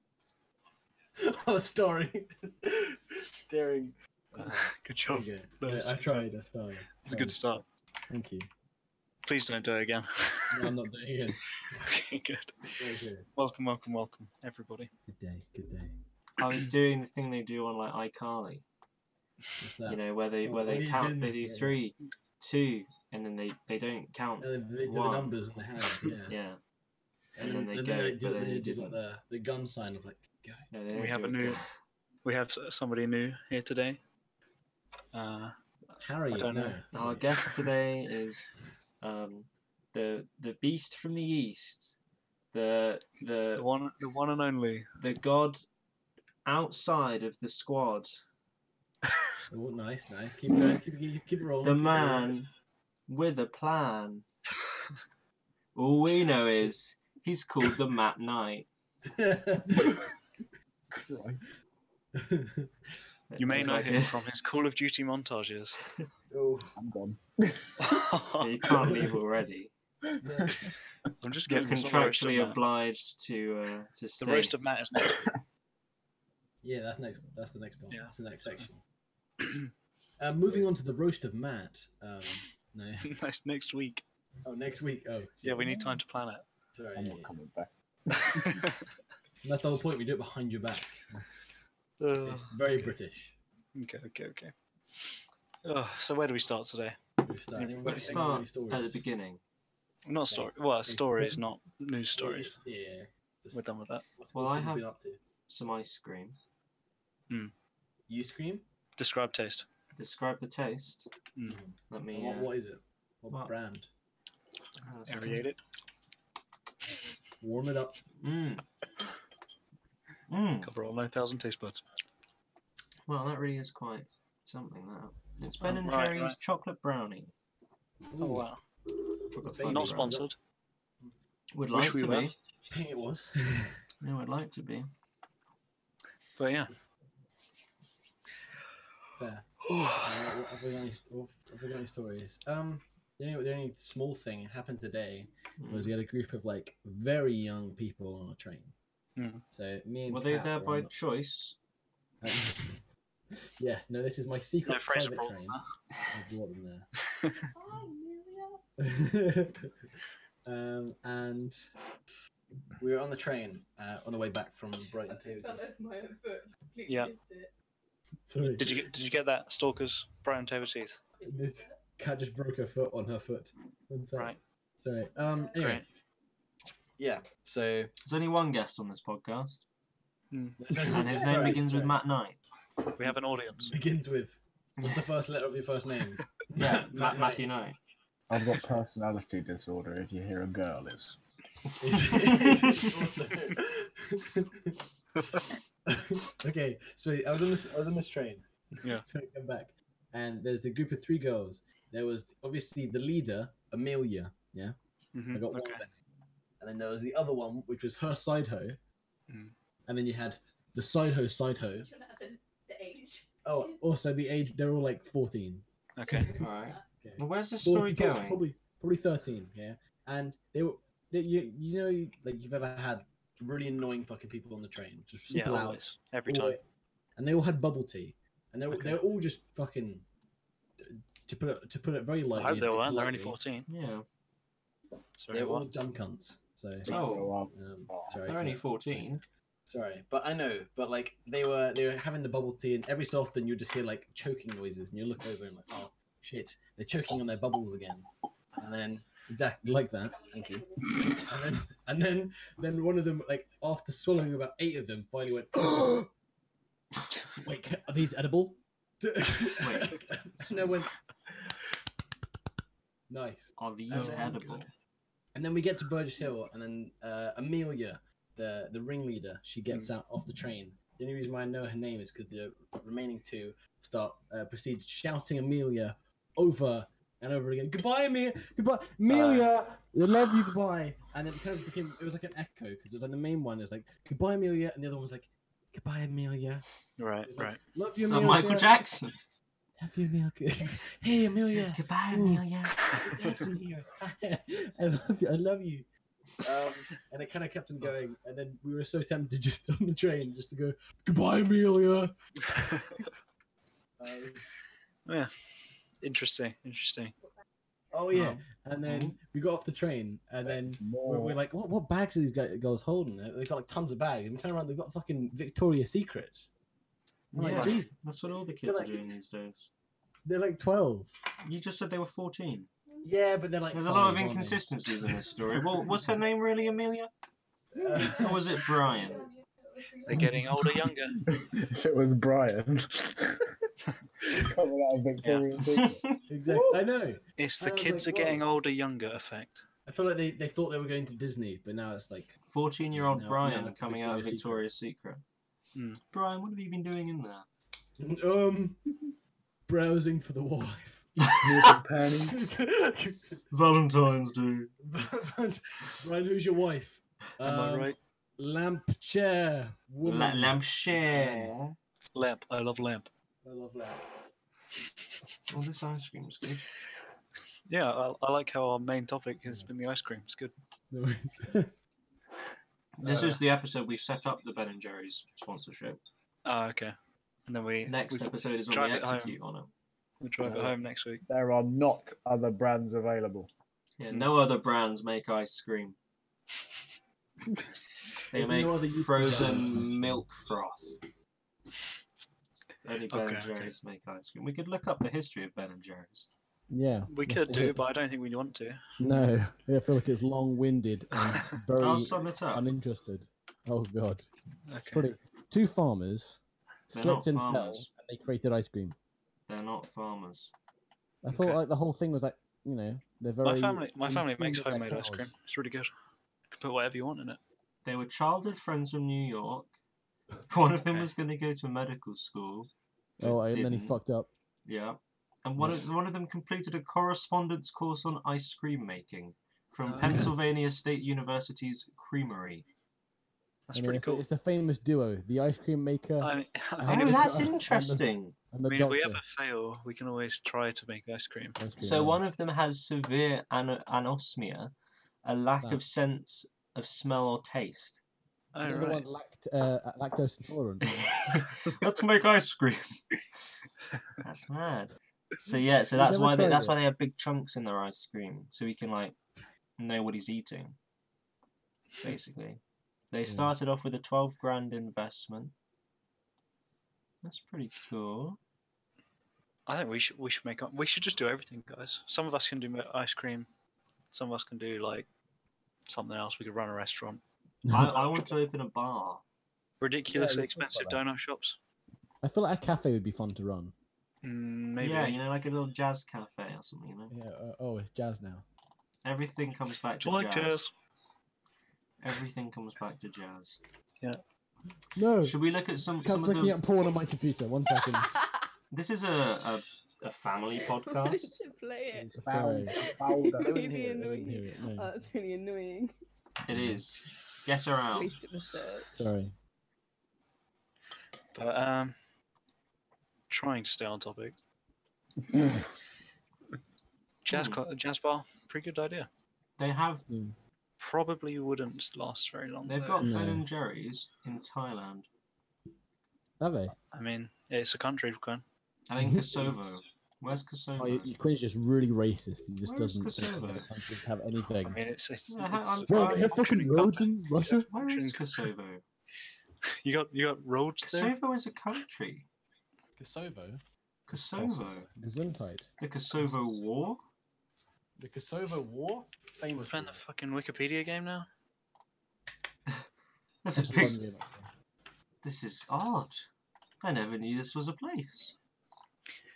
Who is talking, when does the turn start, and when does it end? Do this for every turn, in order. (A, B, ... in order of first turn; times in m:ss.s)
0:01.2-0:07.4 A
0:04.4-0:06.3 B
0:07.0-0:07.7 B
0:08.1-0:08.5 A
0:09.2-0:10.7 B
0:10.5-0:11.4 A
0:11.6-0:14.9 B
0:12.8-0:13.3 A
0:15.1-0:16.0 A
0:16.4-0:18.6 C
0:19.6-0:21.8 A
0:19.9-0:25.3 C
0:24.4-0:26.4 A
0:26.3-0:26.6 C
0:27.4-0:30.7 A
0:27.4-0:29.0 C
0:30.7-0:31.7 C
0:30.9-0:31.6 B
0:32.2-0:34.0 B
0:35.1-0:35.6 B
0:36.0-0:37.2 A
0:36.3-0:36.8 B
0:36.9-0:42.0 C
0:42.5-0:43.7 C
0:43.6-0:44.9 B
0:45.0-0:45.6 C
0:46.5-0:48.2 C
0:49.5-0:52.3 A
0:51.6-0:52.5 C
0:53.1-0:54.2 C
0:55.8-0:58.7 C
0:59.0-1:00.0 A
1:00.9-1:01.4 D
1:02.2-1:02.7 A
1:03.3-1:04.2 C
1:03.4-1:05.8 B
1:06.3-1:06.7 A
1:06.8-1:07.9 D
1:07.8-1:08.7 B
1:08.4-1:09.7 C
1:10.2-1:10.6 A
1:10.2-1:10.7 D
1:11.2-1:12.6 B
1:11.5-1:14.6 C
1:14.2-1:15.3 B
1:16.6-1:18.8 A
1:17.9-1:18.2 B
1:20.2-1:23.1 A
1:23.0-1:24.0 B
1:24.4-1:25.6 A
1:25.4-1:26.5 B
1:26.7-1:27.3 A
1:27.0-1:28.7 D
1:29.4-1:31.5 A
1:32.0-1:32.9 B
1:32.2-1:33.4 A
1:33.8-1:37.0 B
1:37.2-1:39.0 A
1:37.6-1:38.2 B
1:37.8-1:39.4 C
1:40.1-1:42.6 B
1:40.3-1:41.4 A
1:42.2-1:45.2 A
1:43.5-1:44.0 B
1:44.3-1:44.9 C
1:45.5-1:46.4 C
1:48.1-1:48.6 A
1:49.0-1:49.7 B
1:50.0-1:51.1 C
1:51.4-1:51.6 B
1:51.4-1:53.9 A
1:51.9-1:52.5 C
1:54.8-1:55.5 C
1:55.1-1:55.6 B
1:57.4-1:58.0 A
1:58.2-1:58.6 C
2:00.3-2:00.7 C
2:00.6-2:01.8 B
2:03.1-2:07.3 C
2:05.6-2:06.4 B
2:08.1-2:08.5 A
2:08.2-2:08.6 B
2:09.3-2:10.2 C
2:09.4-2:10.3 A
2:09.6-2:10.4 B
2:11.5-2:12.3 C
2:11.7-2:12.3 B
2:12.7-2:13.8 A
2:14.0-2:14.9 C
2:16.4-2:16.7 B
2:19.2-2:28.7 A
2:19.6-2:20.1 B
2:25.6-2:25.9 C
2:29.2-2:29.4 B
2:29.5-2:30.9 A
2:30.1-2:31.6 C
2:32.2-2:32.9 A
2:33.6-2:35.6 A
2:34.6-2:35.6 B
2:36.1-2:36.9 A
2:37.5-2:38.6 E
2:38.8-2:39.9 A
2:40.4-2:41.6 A
2:42.8-2:45.6 A
2:45.0-2:47.5 E
2:46.9-2:47.1 B
2:48.2-2:48.8 A
2:48.4-2:51.0 B
2:51.2-2:51.7 E
2:51.2-2:55.8 A
2:55.5-2:55.9 B
2:57.0-2:57.9 A
2:58.0-2:59.6 C
3:00.3-3:01.3 B
3:00.6-3:02.0 A
3:00.9-3:02.4 C
3:03.0-3:03.8 B
3:03.7-3:07.4 A
3:04.8-3:05.0 C
3:06.5-3:07.8 C
3:08.3-3:11.2 D
3:11.8-3:14.8 A
3:12.0-3:12.8 C
3:15.2-3:15.5 B
3:15.9-3:24.8 A
3:25.1-3:25.9 B
3:25.3-3:25.9 A
3:26.6-3:28.8 A
3:29.3-3:29.5 B
3:29.9-3:31.9 A
3:31.7-3:33.8 E
3:33.4-3:35.6 A
3:36.0-3:36.3 B
3:36.1-3:36.8 E
3:36.4-3:38.4 C
3:37.0-3:46.6 A
3:45.3-3:46.6 B
3:47.2-3:50.1 A
3:50.8-3:53.4 A
3:52.4-3:53.7 B
3:53.7-3:54.1 C
3:55.2-3:55.7 B
3:55.3-3:56.9 A
3:56.8-3:58.2 D
3:56.9-3:57.3 C
3:57.5-4:16.1 A
3:58.2-3:59.2 C
4:10.2-4:10.8 E
4:17.4-4:20.9 A
4:19.6-4:20.6 C
4:23.1-4:24.4 A
4:23.6-4:24.7 C
4:23.9-4:24.6 B
4:25.4-4:46.6 A
4:39.1-4:39.5 B
4:47.0-4:47.6 B
4:47.2-4:48.7 A
4:48.0-4:49.2 C
4:49.8-4:55.9 A
4:51.6-4:53.5 C
4:56.4-5:02.1 A
5:02.5-5:03.0 B
5:04.0-5:04.6 A
5:05.1-5:07.2 B
5:07.9-5:16.5 A
5:08.1-5:09.2 C
5:10.5-5:11.4 D
5:17.3-5:17.9 A
5:17.4-5:19.7 C
5:18.6-5:19.1 A
5:20.2-5:21.2 A
5:21.4-5:22.7 C
5:23.0-5:24.6 A
5:23.7-5:27.1 C
5:27.8-5:28.4 A
5:27.9-5:30.1 E
5:28.0-5:29.3 C
5:30.1-5:31.2 B
5:30.1-5:30.4 A
5:31.3-5:33.4 D
5:34.2-5:36.8 D
5:35.2-5:36.2 C
5:36.3-5:38.4 A
5:37.4-5:39.7 B
5:39.9-5:42.3 A
5:42.5-5:45.2 C
5:43.0-5:44.7 A
5:45.8-5:46.0 B
5:46.1-5:47.5 C
5:48.0-5:48.8 A
5:49.7-5:51.4 A
5:51.4-5:52.4 D
5:52.3-5:53.4 A
5:53.5-5:54.7 C
5:54.8-6:01.5 A
5:57.4-5:58.0 B
6:00.0-6:01.8 C
6:02.1-6:03.1 B
6:03.4-6:04.0 A
6:05.5-6:06.7 C
6:07.7-6:10.5 B
6:09.4-6:09.7 A
6:10.9-6:11.7 A
6:13.0-6:16.0 C
6:13.1-6:13.4 A
6:16.4-6:16.9 B
6:17.5-6:19.4 B
6:17.9-6:19.7 C
6:20.2-6:21.2 B
6:20.4-6:20.7 D
6:21.3-6:23.5 D
6:24.0-6:26.0 C
6:28.3-6:31.0 C
6:28.3-6:30.2 A
6:32.8-6:36.3 C
6:33.1-6:33.8 B
6:36.7-6:37.8 A
6:37.1-6:38.8 B
6:39.0-6:44.3 A
6:41.8-6:42.6 C
6:44.7-6:45.1 B
6:44.9-6:49.0 A
6:46.9-6:47.9 C
6:49.5-6:50.5 C
6:51.2-6:55.3 A
6:51.3-6:51.6 B
6:53.4-6:55.9 B
6:56.5-6:57.4 B
6:57.8-6:59.8 C
7:00.5-7:02.7 C
7:03.2-7:04.3 A
7:03.2-7:04.0 C
7:04.7-7:12.6 C
7:09.9-7:10.2 B
7:13.7-7:14.2 B
7:13.7-7:19.2 A
7:16.2-7:17.4 B
7:16.8-7:18.4 C
7:18.7-7:21.6 B
7:21.6-7:22.2 A
7:21.8-7:24.7 C
7:25.2-7:28.0 C
7:28.5-7:29.0 B
7:28.6-7:31.3 A
7:31.2-7:33.1 C
7:34.2-7:34.9 C
7:35.4-7:39.2 C
7:35.9-7:36.8 A
7:39.8-7:40.8 C
7:42.0-7:45.5 C
7:47.2-7:48.4 C
7:49.7-7:53.5 B
7:54.1-7:55.1 B
7:55.9-7:57.2 B
7:57.7-7:58.1 A
7:57.7-7:59.2 C
7:59.8-8:01.6 B
8:00.1-8:01.0 A
8:02.2-8:03.7 A
8:04.2-8:05.2 B
8:04.8-8:07.1 C
8:07.1-8:08.4 A
8:09.0-8:10.6 C
8:10.0-8:10.7 B
8:12.0-8:13.6 C
8:15.0-8:15.4 A
8:15.2-8:16.6 C
8:16.0-8:18.2 A
8:18.0-8:18.2 E
8:18.7-8:21.4 C
8:20.7-8:22.2 E
8:22.0-8:23.5 D
8:22.1-8:22.8 A
8:22.7-8:25.9 E
8:23.4-8:24.9 A
8:26.4-8:28.2 C
8:26.5-8:26.8 A
8:27.9-8:29.0 E
8:28.9-8:29.4 A
8:31.4-8:32.0 B
8:33.3-8:34.4 B
8:37.2-8:39.1 B
8:37.3-8:37.6 C
8:39.6-8:40.0 C
8:40.1-8:40.4 A
8:40.8-8:43.1 B
8:42.6-8:45.1 C
8:43.0-8:43.5 A
8:46.4-8:46.8 A
8:46.9-8:48.4 B
8:48.9-8:51.1 C
8:49.0-8:49.6 A
8:50.8-8:54.8 A
8:52.6-8:53.7 C
8:54.6-8:56.9 B
8:55.3-8:57.0 C
8:55.9-8:57.7 A
8:57.4-8:58.3 B
8:57.7-8:58.8 C
8:59.8-9:01.2 B
9:00.8-9:02.3 C
9:03.0-9:05.7 A
9:04.1-9:04.9 C
9:05.8-9:07.0 C
9:08.0-9:10.0 A
9:09.6-9:11.3 B
9:13.4-9:14.0 C
9:13.6-9:14.5 A
9:15.2-9:16.3 C
9:16.8-9:18.4 C